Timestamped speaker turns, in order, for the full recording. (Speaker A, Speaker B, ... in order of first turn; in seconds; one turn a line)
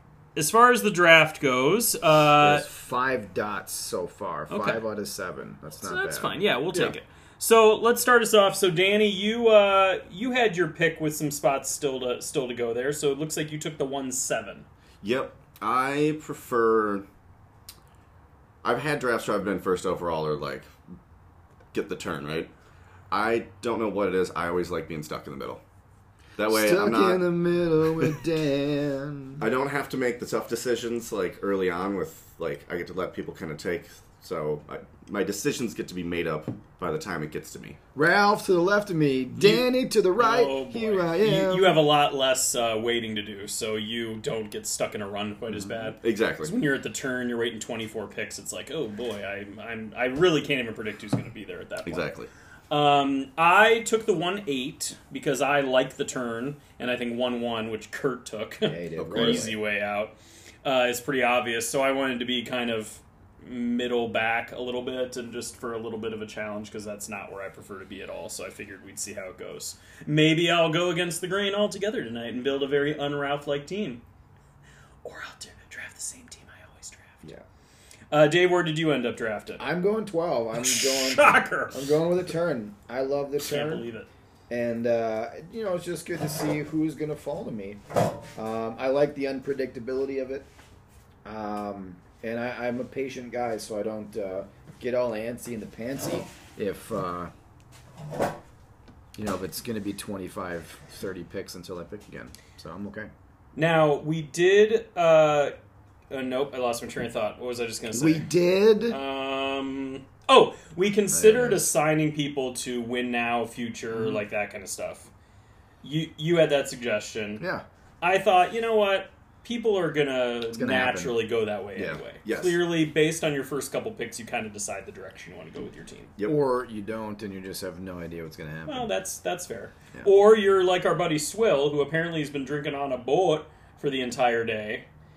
Speaker A: 0.3-2.6
Speaker B: 2.4-6.4
Speaker A: 4.5-4.8
Speaker A: 5.8-14.7
Speaker C: 15.0-17.1
Speaker C: 18.6-20.7
Speaker C: 21.7-22.5
Speaker C: 23.1-25.6
Speaker C: 26.4-27.3
Speaker B: 26.5-29.4
Speaker C: 27.8-28.1
Speaker C: 29.4-37.8
Speaker B: 37.9-41.8
Speaker A: 39.4-52.1
Speaker C: 45.9-46.5
Speaker C: 51.8-52.3
Speaker A: 52.7-74.0
Speaker B: 58.6-59.6
Speaker C: 59.0-59.5
Speaker A: 75.0-77.3
Speaker A: 78.1-79.7
Speaker B: 79.6-83.8
Speaker A: 80.6-82.0
Speaker A: 83.4-84.1
Speaker B: 84.5-87.8
Speaker B: 88.3-90.5
Speaker B: 91.2-97.3
Speaker B: 99.1-103.1
Speaker A: 103.5-105.5
Speaker A: 106.1-108.3
Speaker B: 107.9-109.0
Speaker A: 108.9-115.1
Speaker B: 111.1-111.7
Speaker B: 113.9-114.2
Speaker A: 115.8-117.4
Speaker B: 117.4-117.6
Speaker A: 118.0-126.1
Speaker B: 120.5-121.2
Speaker C: 122.2-122.6
Speaker B: 126.2-128.9
Speaker A: 128.7-134.9